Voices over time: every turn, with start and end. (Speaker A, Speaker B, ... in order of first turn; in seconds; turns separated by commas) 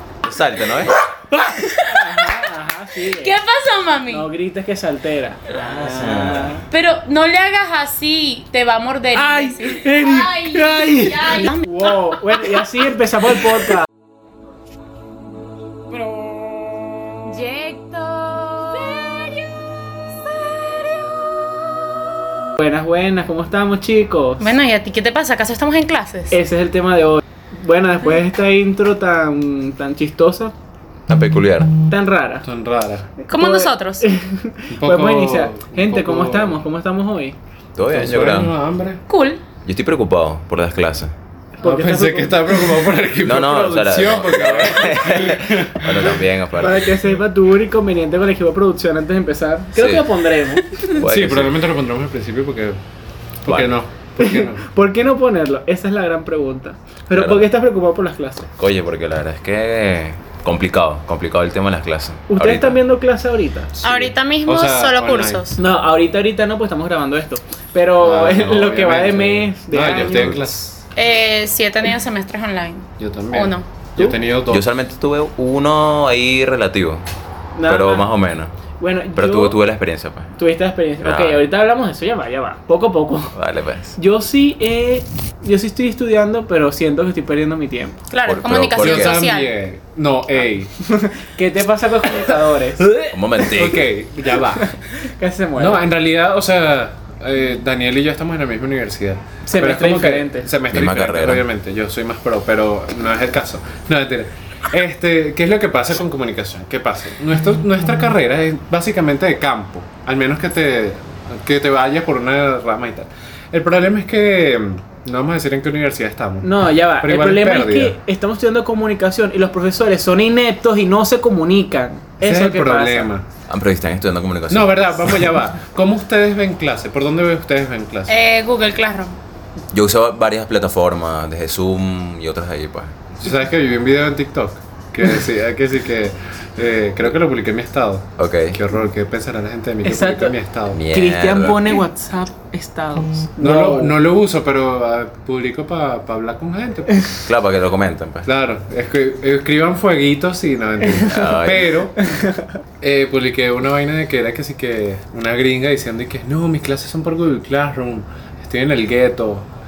Speaker A: 0.2-1.0, Speaker B: 1.5-2.4, Speaker C: 1.8-3.4, Speaker B: 3.1-4.3, Speaker C: 4.1-6.6, Speaker A: 5.6-6.6, Speaker B: 6.7-12.6, Speaker C: 9.2-13.9, Speaker B: 17.2-19.5, Speaker B: 20.5-21.2, Speaker C: 22.6-24.6, Speaker B: 24.4-26.4, Speaker C: 26.3-30.5, Speaker A: 31.1-31.7, Speaker C: 31.9-32.5, Speaker D: 32.4-33.1, Speaker B: 33.3-34.1, Speaker C: 33.3-37.4, Speaker D: 34.7-36.6, Speaker A: 37.8-38.5, Speaker D: 37.9-39.0, Speaker B: 39.1-39.4, Speaker A: 39.6-41.1, Speaker C: 41.6-42.9, Speaker D: 41.6-46.2, Speaker A: 43.2-47.0, Speaker C: 46.5-50.7, Speaker A: 49.8-50.0, Speaker A: 50.9-51.6, Speaker D: 51.0-52.8, Speaker D: 53.5-54.7, Speaker A: 53.5-53.7, Speaker C: 54.2-58.5, Speaker A: 57.1-57.5, Speaker A: 58.6-62.8, Speaker C: 62.3-63.7, Speaker D: 63.8-65.4, Speaker B: 63.8-65.6, Speaker C: 65.6-70.5, Speaker D: 68.0-70.8, Speaker A: 69.8-70.5, Speaker B: 71.0-73.7, Speaker D: 73.0-74.7, Speaker A: 74.5-77.0, Speaker C: 77.5-78.1, Speaker A: 77.6-78.5, Speaker C: 78.8-79.6, Speaker A: 79.2-80.3, Speaker C: 80.4-83.3, Speaker A: 81.0-81.5, Speaker A: 83.3-84.0, Speaker C: 84.0-88.0, Speaker B: 88.1-89.5, Speaker A: 88.2-89.2, Speaker D: 88.8-90.7, Speaker C: 91.0-92.9, Speaker D: 92.9-94.8, Speaker A: 93.1-93.9, Speaker C: 94.7-95.8, Speaker D: 95.6-118.0, Speaker C: 99.5-100.5, Speaker A: 100.7-101.5, Speaker C: 116.4-123.1, Speaker D: 122.2-123.3, Speaker A: 123.5-125.2, Speaker D: 124.5-128.1, Speaker B: 128.1-129.2, Speaker A: 129.7-132.9, Speaker D: 133.2-140.8, Speaker A: 138.2-138.6, Speaker C: 139.8-144.0, Speaker A: 140.7-141.8, Speaker D: 143.4-147.1, Speaker A: 147.2-148.3, Speaker D: 148.2-152.0, Speaker A: 151.1-151.7, Speaker C: 152.2-152.5, Speaker D: 152.8-159.5